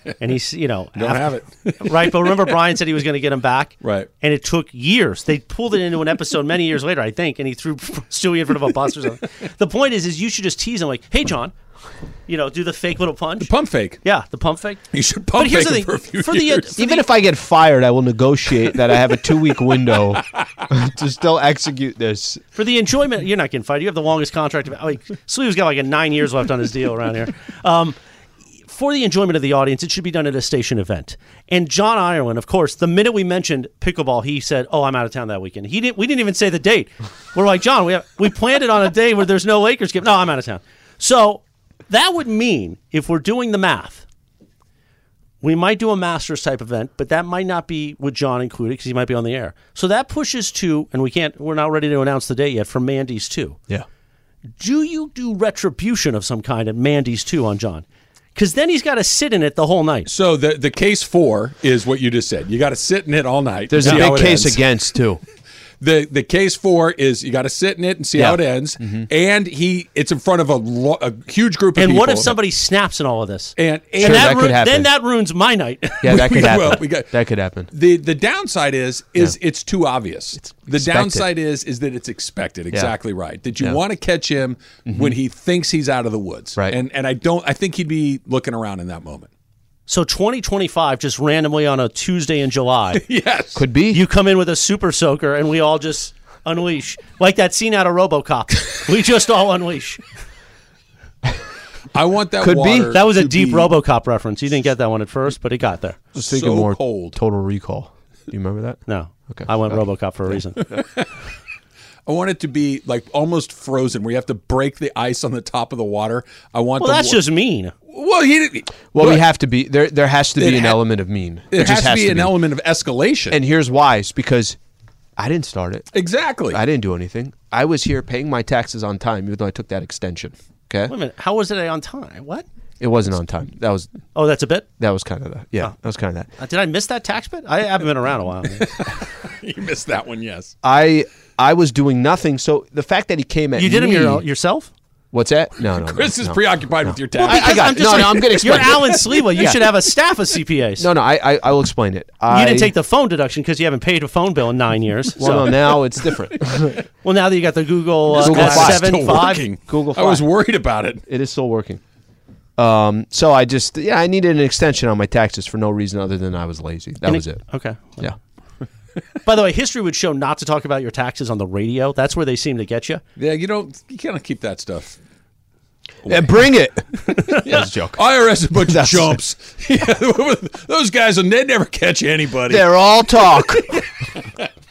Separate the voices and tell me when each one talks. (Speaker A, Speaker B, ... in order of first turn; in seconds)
Speaker A: 0.2-11.5, 12.3-13.5, 14.0-14.8, 15.3-17.1, 22.6-28.0, 28.7-44.0, 45.4-53.6, 54.6-60.1, 63.8-64.1, 71.8-76.1, 89.9-93.0, 93.9-100.0, 102.9-106.0, 108.9-110.7, 116.8-117.7, 130.9-132.5, 134.2-134.7, 136.4-138.7, 143.6-144.7, 147.2-150.9, 152.3-155.7, 157.0-159.4, 167.0-168.1, 169.3-173.0
Speaker B: 0.9-2.5, 3.8-4.1, 13.4-14.0, 14.9-16.9, 60.1-64.7, 65.8-72.4, 73.6-74.6, 76.0-77.1, 77.7-89.3, 92.9-93.7, 101.9-103.7, 106.2-107.2, 110.7-111.1, 112.1-117.2, 117.9-119.2, 120.4-120.8, 121.5-123.4, 125.9-126.6, 138.7-140.5, 145.6-149.0, 158.1-161.0, 173.2-175.0, 176.1-176.5, 177.3-182.7
Speaker C: 16.8-22.4, 63.7-65.2, 68.2-69.1, 74.0-74.9, 76.0-77.7, 80.4-81.3, 84.9-85.2, 93.5-94.0, 102.4-103.0, 106.2-109.5, 118.9-122.4, 123.3-124.6, 125.2-125.9, 126.5-130.9, 132.8-133.9, 134.8-136.3, 140.6-144.2, 145.1-149.6, 150.8-152.7, 155.2-156.8, 158.2-160.2, 161.1-161.8, 162.6-167.4, 176.1-179.2, 182.5-183.8